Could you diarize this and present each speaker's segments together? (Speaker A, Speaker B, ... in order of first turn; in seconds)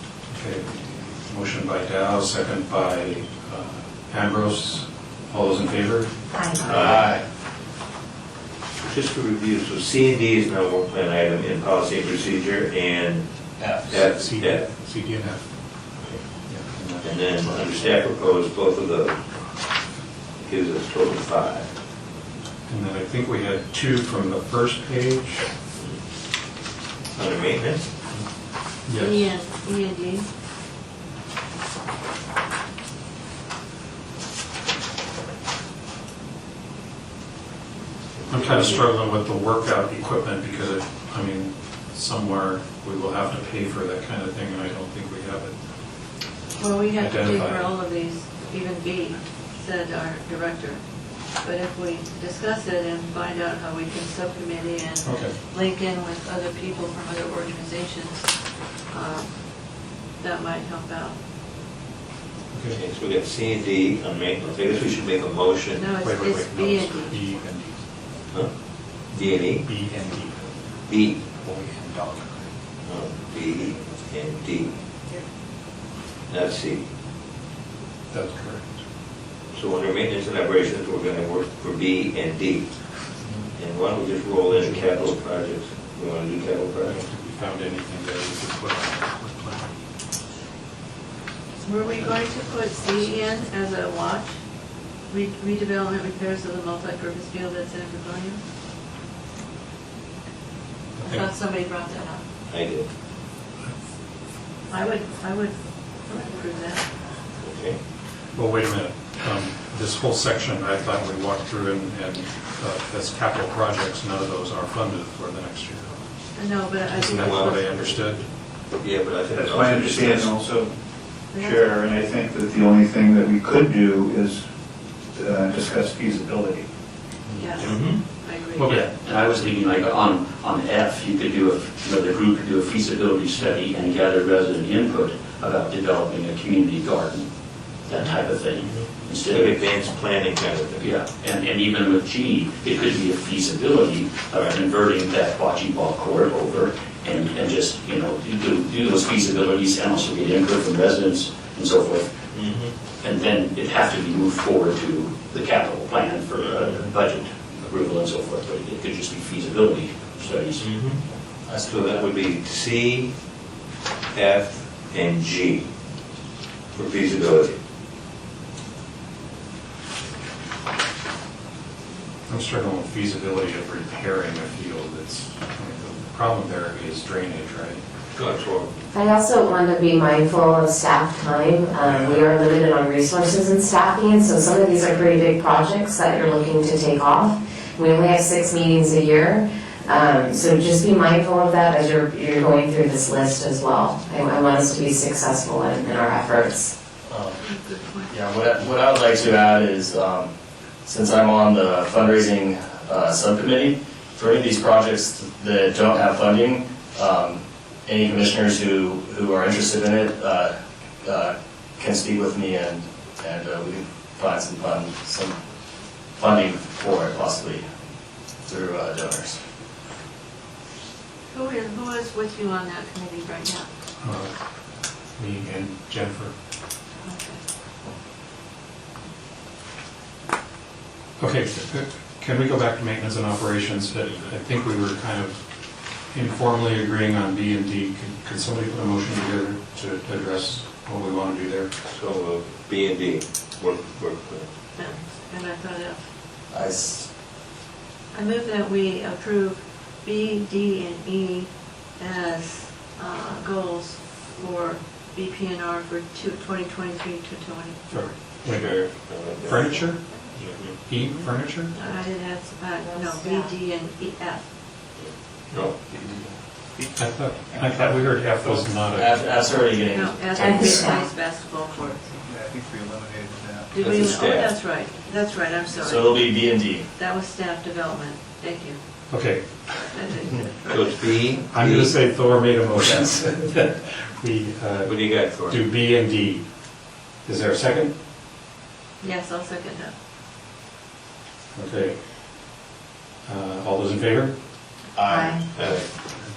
Speaker A: 0.3-7.2, 13.8-15.4, 16.4-17.9, 22.7-25.5, 28.8-29.3, 38.3-45.7, 47.0-47.7, 55.0-55.4, 62.5-62.8, 66.0-67.8, 69.6-70.2, 78.1-78.8, 84.5-84.9, 86.8-89.8, 101.0-101.3, 108.3-116.0, 116.8-118.2, 127.2-127.6, 128.6-128.9, 172.3-177.8, 181.8-182.3, 224.0-224.3, 225.1-226.3, 231.2-241.7, 257.9-261.7, 266.9-269.4, 279.1-279.9, 281.5-286.5, 287.2-287.9, 291.5-292.0, 293.2-294.3
Speaker B: 6.3-6.6, 178.9-196.7, 262.9-263.5, 270.3-271.1, 295.1-295.4
Speaker C: 6.6-7.0, 8.8-14.7, 16.0-16.2, 17.0-19.3, 20.4-21.7, 27.1-27.9, 38.2-38.8, 62.7-66.0, 68.3-68.5, 69.1-69.7, 70.8-71.3, 72.8-74.8, 76.3-76.9, 79.5-82.7, 83.5-87.0, 102.5-102.9, 107.4-107.8, 117.1-120.3, 127.6-128.0, 137.9-140.9, 144.3-144.7, 152.3-152.8, 156.4-156.8, 160.6-161.0, 161.6-163.1, 164.1-165.7, 166.7-167.6, 178.1-178.7, 241.8-244.5, 258.4-259.8, 260.4-260.8, 264.9-265.8, 273.8-274.6, 280.6-282.0, 284.8-285.6, 295.5-295.9
Speaker D: 6.7-7.2, 13.6-13.9, 161.4-162.1, 197.1-197.4, 198.1-200.3, 200.8-215.4, 216.2-217.6, 218.4-219.4, 246.5-247.1, 268.9-270.9, 275.8-276.9, 294.9-295.4
Speaker E: 28.9-30.3, 46.6-61.2, 65.7-67.2, 91.6-94.4, 95.0-98.4, 101.0-102.2, 104.7-106.9, 116.3-117.8, 121.3-121.8, 127.3-129.0, 197.4-198.2, 221.3-223.7, 227.0-227.4, 244.8-246.0, 248.1-258.2, 259.8-260.1, 261.7-264.5, 269.9-272.0, 273.7-276.3, 276.9-278.8, 279.9-281.4, 289.0-289.9
Speaker F: 119.3-124.5, 125.1-126.7, 272.5-273.7
Speaker G: 128.7-137.3, 137.8-139.7, 140.8-152.1, 153.0-160.7